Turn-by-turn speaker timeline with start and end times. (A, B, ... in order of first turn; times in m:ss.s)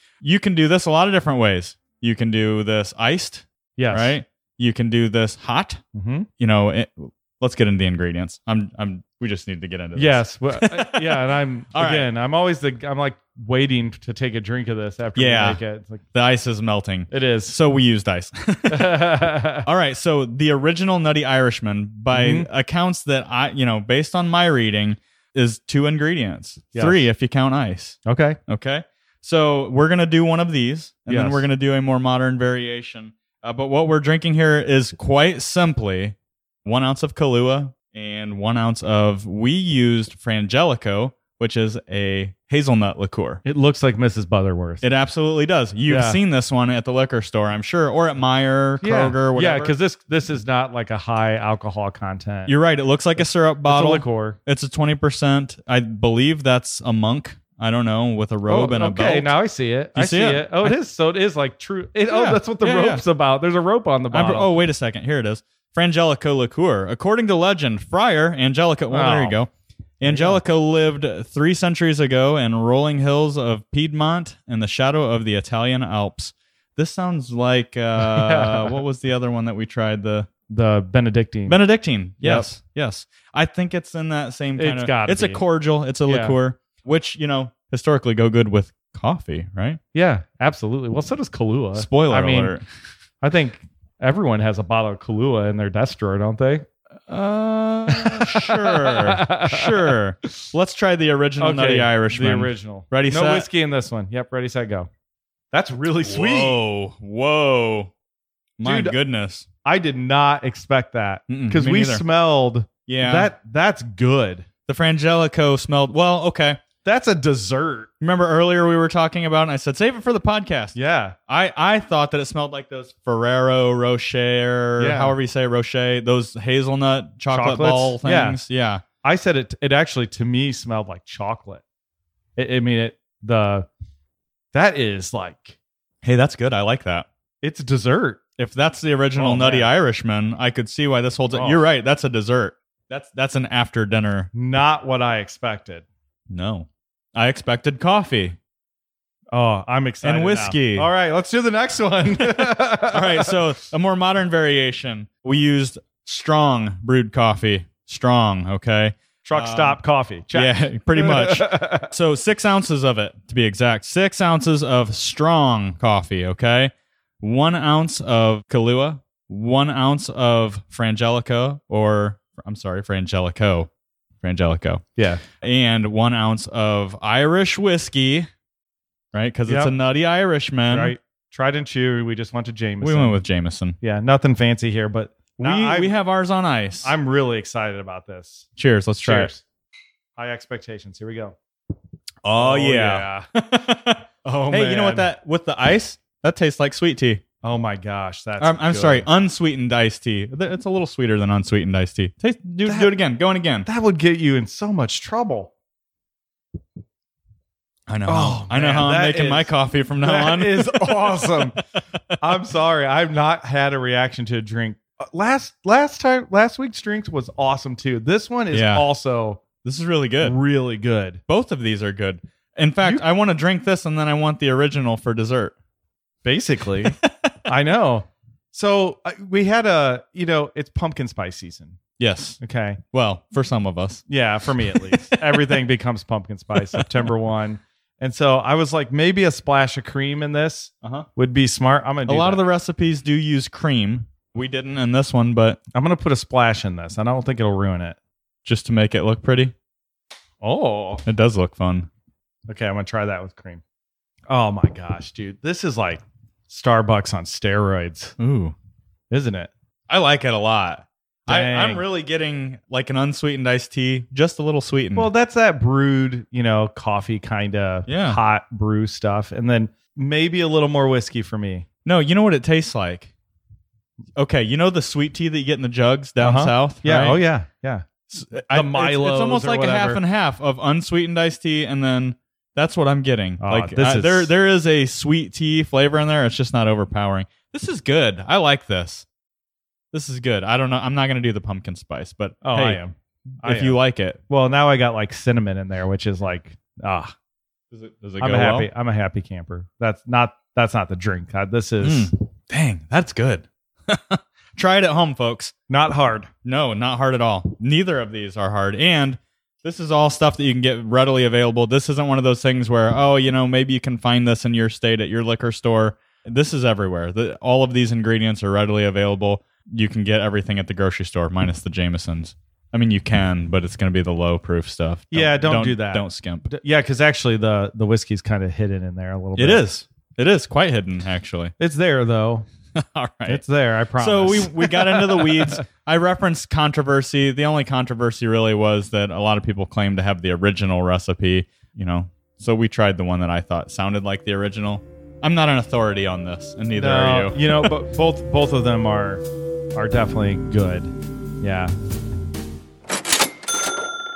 0:00.2-0:05.8 A
0:03.8-0:04.2 B
0:05.9-0:06.3 B
0:06.4-0:12.1 A
0:10.0-0:16.0 B
0:15.2-0:15.6 A
0:16.1-0:19.1 A
0:17.1-0:17.6 B
0:18.7-0:19.6 B
0:19.6-0:43.4 A
0:22.1-0:22.5 B
0:26.7-0:27.0 B
0:28.0-0:28.4 B
0:31.1-0:31.4 B
0:43.4-0:44.8 B
0:44.8-0:49.7 A
0:45.9-0:46.2 B
0:48.8-0:52.5 B
0:52.5-0:59.3 A
0:53.7-0:54.4 B
0:58.5-1:04.5 B
0:59.9-1:00.8 A
1:02.1-1:03.0 A
1:04.1-1:20.3 A
1:08.9-1:09.4 B
1:10.0-1:10.4 B
1:18.0-1:18.8 B
1:20.5-1:21.6 B
1:21.5-1:29.8 A
1:22.2-1:22.5 B
1:24.6-1:25.4 B
1:26.1-1:26.4 B
1:29.9-1:32.6 B
1:31.7-1:32.6 A
1:33.2-1:36.6 B
1:37.1-1:43.5 A
1:37.8-1:40.0 B
1:41.4-1:44.9 B
1:45.5-1:46.6 B
1:46.0-1:47.9 A
1:48.6-1:49.4 A
1:48.6-1:49.0 B
1:49.6-1:54.4 B
1:51.3-1:52.0 A
1:52.9-1:53.3 A
1:54.7-1:56.6 A
1:56.8-1:57.9 B
1:58.0-2:00.8 A
2:00.7-2:01.2 B
2:01.3-2:08.8 A
2:04.8-2:05.2 B
2:07.3-2:08.4 B
2:09.0-2:11.6 B
2:12.4-2:13.7 B
2:14.5-2:15.6 B
2:16.0-2:17.1 A
2:17.4-2:18.2 B
2:18.4-2:24.3 A
2:19.2-2:19.7 B
2:21.3-2:21.6 B
2:24.3-2:25.8 B
2:26.3-2:28.4 A
2:29.3-2:33.3 B
2:30.0-2:30.9 A
2:32.2-2:39.8 A
2:39.2-2:41.9 B
2:40.3-2:53.7 A
2:54.2-2:58.3 A
2:55.0-2:55.2 B
2:59.1-3:00.9 A
2:59.5-2:59.7 B
3:00.7-3:03.2 B
3:02.8-3:03.8 A
3:03.8-3:05.9 B
3:05.4-3:06.9 A
3:06.8-3:08.5 B
3:08.6-3:09.3 A
3:09.0-3:09.4 B
3:10.2-3:11.4 B
3:12.2-3:17.2 A
3:12.3-3:13.2 B
3:14.2-3:15.1 B
3:17.4-3:19.1 B
3:18.4-3:23.7 A
3:22.6-3:22.9 B
3:23.6-3:25.5 B
3:27.9-3:31.6 A
3:28.1-3:31.6 B
3:32.2-3:39.4 B
3:38.5-3:38.9 A
3:39.6-3:40.4 A
3:40.2-3:41.2 B
3:41.3-3:45.5 A
3:46.2-3:51.8 B
3:46.8-3:47.3 A
3:52.0-3:52.4 A
3:52.4-3:52.8 B
3:52.9-3:54.0 A
3:54.1-4:02.4 B
3:54.6-3:55.6 A
3:56.5-3:57.1 A
4:02.1-4:05.6 A
4:05.7-4:08.0 B
4:08.4-4:09.5 A
4:10.4-4:11.0 B
4:11.0-4:11.9 A
4:12.5-4:13.6 B
4:14.3-4:18.1 B
4:18.2-4:18.5 A
4:19.1-4:19.5 B
4:19.9-4:25.1 A
4:21.3-4:21.8 B
4:25.0-4:31.6 B
4:27.9-4:28.2 A
4:31.8-4:33.1 A
4:34.2-4:37.2 A
4:36.2-4:37.9 B
4:38.1-4:49.0 A
4:38.5-4:40.0 B
4:43.4-4:44.3 B
4:49.9-4:52.8 A
4:52.4-4:53.8 B
4:53.4-4:54.2 A
4:54.3-4:57.1 B
4:57.7-4:58.7 A
4:58.2-5:02.1 B
5:01.8-5:05.5 A
5:05.7-5:06.3 B
5:06.4-5:26.5 A
5:25.1-5:29.6 B
5:29.4-5:31.5 A
5:31.6-5:32.5 B
5:32.7-5:33.4 A
5:33.3-5:35.6 B
5:34.0-5:47.7 A
5:46.8-5:49.2 B
5:49.7-5:51.7 B